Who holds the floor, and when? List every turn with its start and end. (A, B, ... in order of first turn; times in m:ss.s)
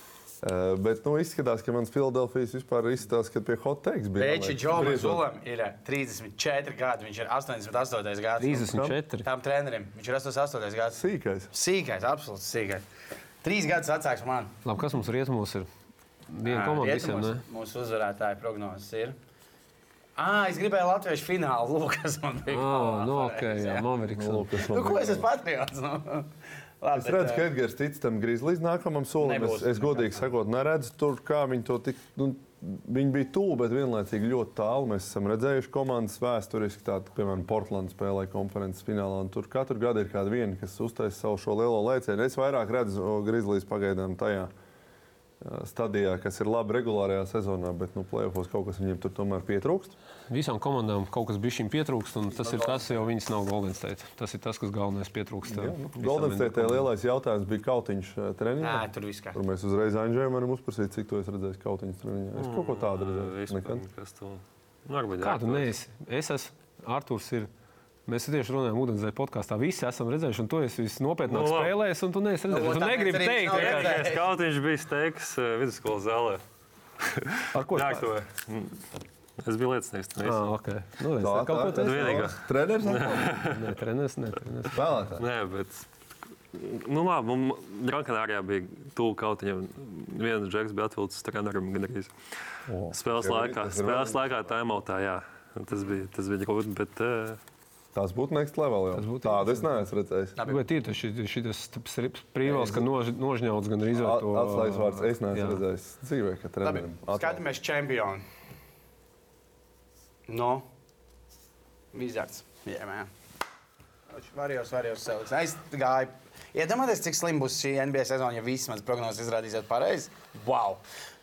0:00.4-0:05.2 A
0:04.2-0:11.0 B
0:08.4-0:09.2 C
0:08.7-0:09.0 A
0:10.9-0:11.5 A
0:11.5-0:12.8 B
0:13.4-0:14.5 B
0:14.6-0:15.7 C
0:16.3-0:17.4 C
0:16.4-0:19.2 B
0:20.2-0:23.9 B
0:22.5-0:24.5 C
0:24.1-0:25.3 A
0:24.7-0:27.4 B
0:27.0-0:44.5 A
0:29.2-0:30.3 B
0:45.4-0:49.9 A
0:50.3-0:56.9 C
0:52.3-0:53.0 B
0:55.4-1:03.8 A
0:58.6-0:59.4 B
1:02.4-1:05.7 D
1:05.2-1:07.5 C
1:08.1-1:14.0 C
1:11.2-1:11.7 D
1:12.5-1:14.2 B
1:13.5-1:16.4 D
1:17.0-1:18.8 D
1:17.5-1:18.1 C
1:19.4-1:20.5 D
1:20.2-1:22.2 C
1:21.2-1:23.3 A
1:21.8-1:23.7 D
1:23.4-1:24.8 C
1:24.7-1:25.2 A
1:25.2-1:25.9 D
1:26.5-1:32.1 D
1:32.7-1:34.2 A
1:32.9-1:37.4 D
1:37.9-1:40.4 A
1:38.9-1:39.7 C
1:40.4-1:40.6 B
1:40.4-1:45.6 C
1:42.4-1:42.8 A
1:43.9-1:47.4 A
1:46.6-1:48.2 B
1:50.3-1:50.7 B
1:51.9-1:53.1 B
1:54.1-2:00.8 B